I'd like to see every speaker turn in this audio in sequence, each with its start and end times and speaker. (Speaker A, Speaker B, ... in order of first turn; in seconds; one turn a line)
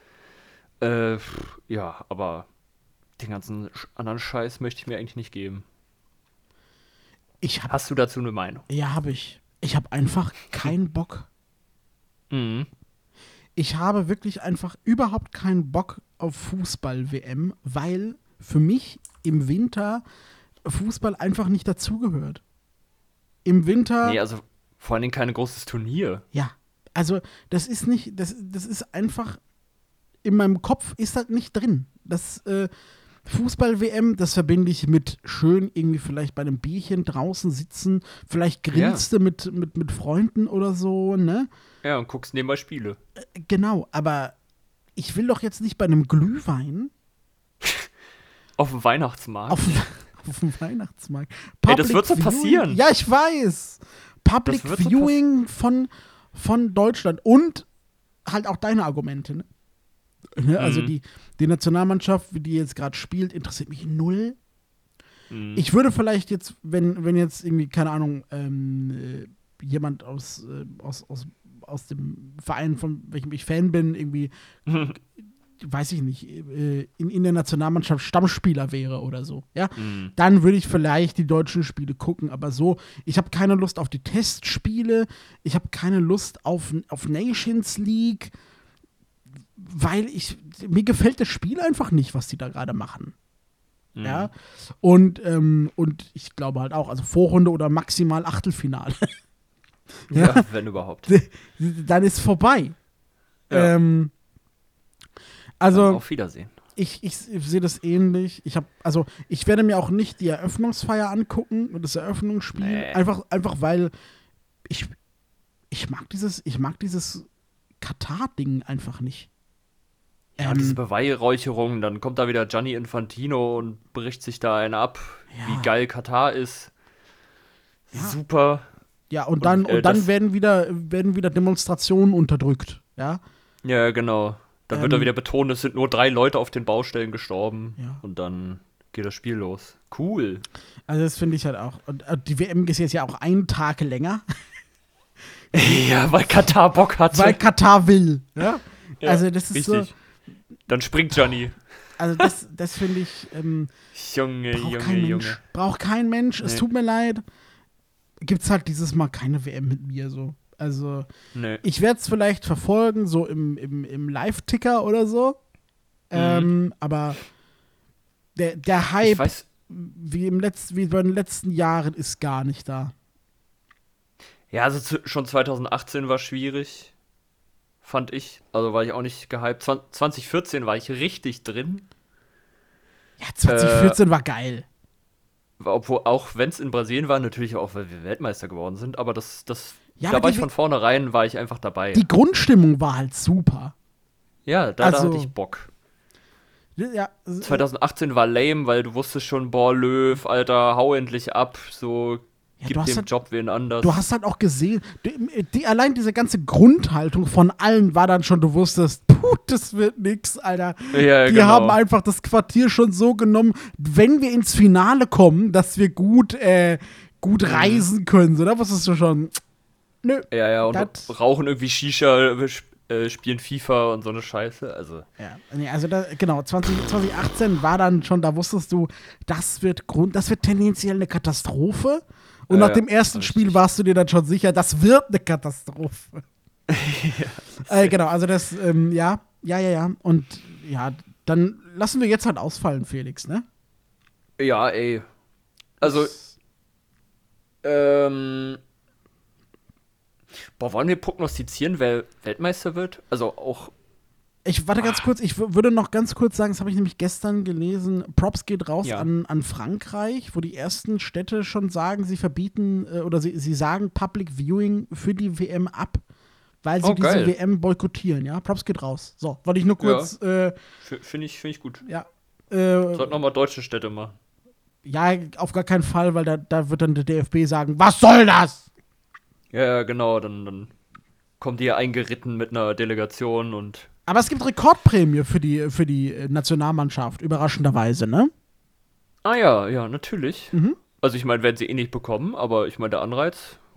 Speaker A: 0.8-2.5
Speaker A: 3.2-5.7
Speaker B: 7.4-7.7
Speaker A: 7.7-8.7
Speaker B: 8.7-11.3
Speaker A: 12.3-12.7
Speaker B: 13.6-20.0
Speaker B: 20.6-22.4
Speaker B: 23.4-24.2
Speaker A: 24.0-26.2
Speaker B: 26.3-29.4
Speaker B: 30.2-32.7
Speaker B: 33.3-41.5
Speaker A: 38.7-39.0
Speaker A: 41.8-43.0
Speaker B: 43.2-44.4
Speaker B: 45.0-46.9
Speaker A: 47.6-47.9
Speaker A: 48.6-49.8
Speaker B: 49.5-57.7
Speaker A: 51.7-52.8
Speaker A: 54.5-55.1
Speaker B: 58.2-59.5
Speaker B: 60.4-64.4
Speaker A: 60.6-61.0
Speaker A: 65.3-65.7
Speaker B: 65.6-74.3
Speaker A: 74.7-75.0
Speaker B: 75.6-88.3
Speaker A: 79.8-80.1
Speaker B: 89.6-93.2
Speaker A: 94.0-94.3
Speaker B: 94.0-99.1
Speaker B: 100.1-100.5
Speaker A: 100.1-101.1
Speaker B: 101.1-102.8
Speaker B: 103.5-104.1
Speaker B: 105.6-106.0
Speaker A: 105.7-106.5
Speaker B: 106.8-113.9
Speaker A: 112.6-113.0
Speaker B: 114.7-114.9
Speaker B: 115.7-117.3
Speaker B: 117.8-119.3
Speaker B: 120.4-120.8
Speaker A: 120.4-126.7
Speaker B: 125.3-125.7
Speaker A: 127.9-128.7
Speaker B: 129.1-133.2
Speaker A: 129.4-130.1
Speaker A: 133.6-140.4
Speaker B: 134.7-135.1
Speaker B: 140.9-144.2
Speaker A: 145.5-147.4
Speaker B: 147.1-149.9
Speaker A: 149.0-149.9
Speaker A: 150.7-151.6
Speaker B: 152.0-153.7
Speaker A: 153.9-155.4
Speaker B: 154.5-157.2
Speaker B: 158.2-161.1
Speaker A: 161.3-161.6
Speaker B: 161.6-165.4
Speaker B: 166.1-167.2
Speaker A: 166.1-166.5
Speaker B: 168.4-172.9
Speaker A: 169.0-169.5
Speaker A: 174.5-176.9
Speaker A: 177.8-181.9
Speaker B: 183.2-184.7
Speaker A: 183.5-184.0
Speaker A: 185.6-192.1
Speaker B: 190.0-190.5
Speaker B: 191.9-193.7
Speaker A: 194.5-195.7
Speaker B: 194.8-195.3
Speaker B: 196.8-197.6
Speaker A: 197.4-204.0
Speaker B: 202.6-203.1
Speaker B: 203.8-219.4
Speaker A: 210.9-211.8
Speaker A: 217.4-217.9
Speaker B: 220.0-221.1
Speaker A: 220.3-225.1
Speaker B: 225.2-236.2
Speaker A: 232.5-233.6
Speaker A: 236.7-237.9
Speaker B: 237.7-243.4
Speaker A: 244.4-245.1
Speaker A: 245.8-246.2
Speaker B: 245.8-246.3
Speaker A: 247.6-248.6
Speaker A: 250.6-253.7
Speaker B: 254.4-266.0
Speaker A: 258.8-259.1
Speaker B: 266.6-270.6
Speaker A: 266.8-267.4
Speaker A: 269.8-270.1
Speaker A: 270.8-271.8
Speaker B: 271.9-273.1
Speaker A: 272.9-274.2
Speaker B: 274.9-278.6
Speaker A: 279.5-280.7
Speaker A: 281.4-283.9
Speaker B: 284.1-288.3
Speaker A: 289.2-293.6
Speaker B: 290.5-290.8